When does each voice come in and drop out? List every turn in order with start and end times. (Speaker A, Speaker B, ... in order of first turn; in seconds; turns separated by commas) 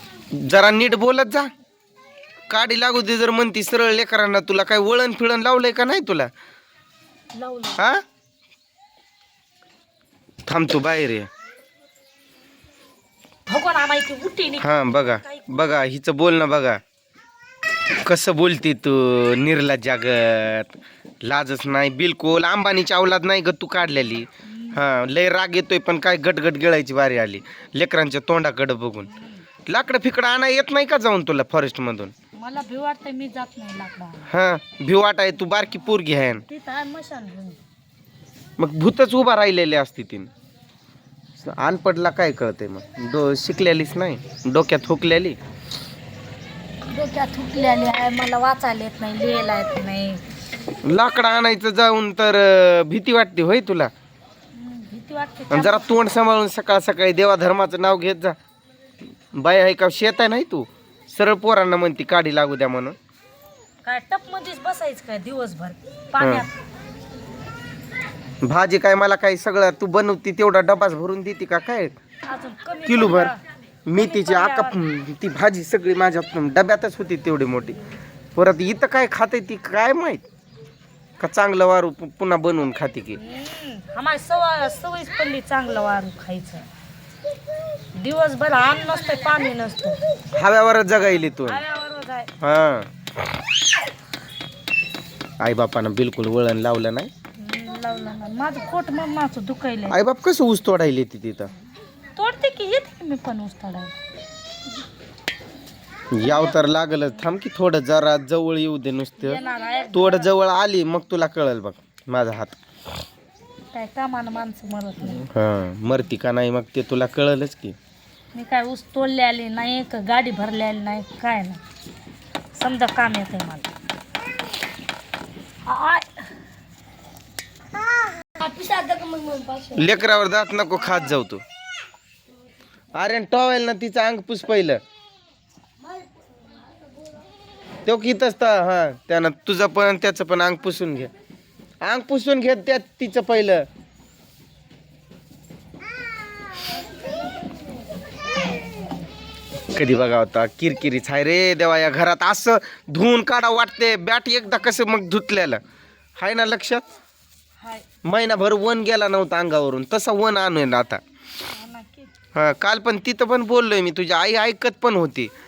Speaker A: 0.4-1.5, Speaker A: 2.5-6.3, Speaker B: 7.3-7.8, Speaker A: 7.8-8.0, Speaker A: 10.5-11.3, Speaker B: 13.5-15.6, Speaker A: 14.6-16.8, Speaker A: 18.0-29.1, Speaker B: 24.5-24.8, Speaker B: 29.1-29.5, Speaker A: 29.7-32.1, Speaker B: 32.4-34.3, Speaker A: 34.3-36.4, Speaker B: 36.5-37.6, Speaker A: 38.6-40.3, Speaker A: 41.4-45.4, Speaker B: 46.8-50.2, Speaker A: 50.9-53.9, Speaker B: 54.6-55.9, Speaker A: 55.5-58.4, Speaker A: 59.4-63.0, Speaker B: 63.8-66.5, Speaker A: 66.2-66.5, Speaker A: 68.4-72.0, Speaker B: 72.3-73.4, Speaker A: 72.9-73.3, Speaker A: 73.9-77.8, Speaker B: 74.0-74.8, Speaker A: 78.3-80.2, Speaker A: 81.2-83.2, Speaker B: 83.2-86.7, Speaker B: 88.0-90.0, Speaker A: 90.3-91.6, Speaker B: 91.4-92.3, Speaker A: 92.4-92.9, Speaker A: 95.4-97.1, Speaker B: 97.4-100.0, Speaker A: 99.9-101.5, Speaker B: 102.2-104.0, Speaker A: 106.1-109.4, Speaker B: 109.2-110.3, Speaker A: 109.9-112.5, Speaker B: 113.7-115.3, Speaker A: 115.2-117.8, Speaker B: 118.3-121.6, Speaker B: 122.5-123.7, Speaker B: 125.7-126.2, Speaker B: 128.4-129.9, Speaker A: 129.8-131.4, Speaker B: 130.8-131.2, Speaker A: 133.0-134.8, Speaker A: 137.9-141.1, Speaker A: 141.8-143.7, Speaker A: 149.7-155.6, Speaker A: 156.2-156.8, Speaker B: 157.6-157.9, Speaker A: 158.1-161.0, Speaker B: 161.5-162.1, Speaker A: 162.3-165.3